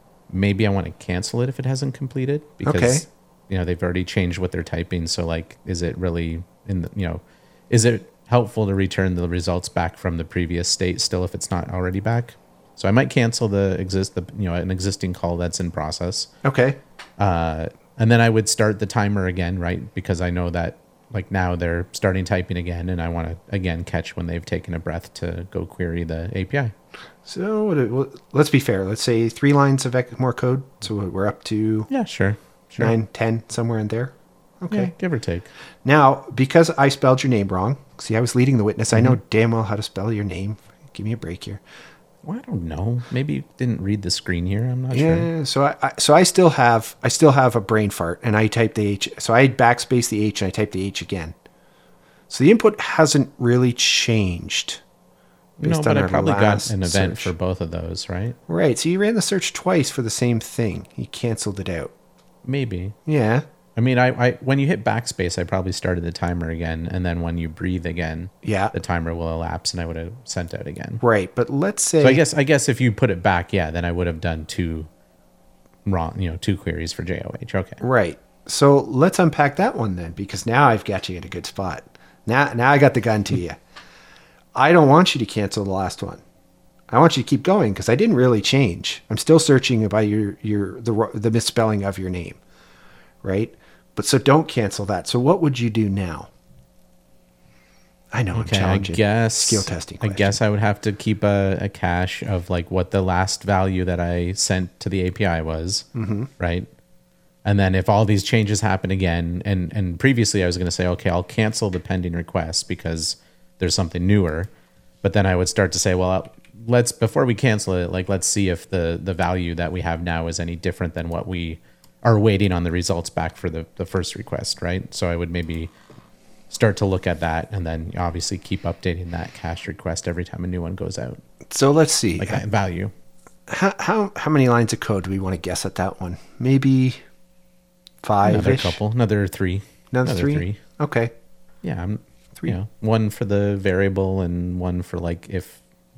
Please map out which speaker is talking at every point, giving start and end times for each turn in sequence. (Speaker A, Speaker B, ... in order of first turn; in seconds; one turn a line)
Speaker A: 0.3-16.3
Speaker B: 2.6-3.0
Speaker B: 16.4-16.8
Speaker A: 17.2-26.7
Speaker B: 27.2-31.9
Speaker A: 31.9-32.9
Speaker B: 32.8-34.9
Speaker A: 34.7-35.5
Speaker B: 35.8-41.6
Speaker A: 38.9-39.2
Speaker A: 42.2-45.3
Speaker B: 44.9-51.4
Speaker B: 52.3-54.8
Speaker A: 55.6-58.4
Speaker B: 55.6-57.3
Speaker B: 58.5-61.9
Speaker A: 62.4-63.0
Speaker B: 63.0-63.4
Speaker A: 63.8-71.0
Speaker B: 68.4-68.7
Speaker B: 71.0-72.2
Speaker A: 72.0-74.9
Speaker A: 75.8-77.8
Speaker B: 77.8-83.6
Speaker B: 84.5-86.2
Speaker B: 86.9-92.4
Speaker B: 93.2-96.3
Speaker B: 98.1-100.4
Speaker A: 98.3-106.7
Speaker B: 105.9-106.3
Speaker A: 107.4-114.5
Speaker A: 115.0-125.7
Speaker A: 126.5-131.2
Speaker B: 131.5-132.4
Speaker A: 132.2-132.9
Speaker B: 133.5-137.0
Speaker B: 138.0-138.8
Speaker A: 138.2-140.6
Speaker B: 139.9-141.1
Speaker A: 141.6-145.6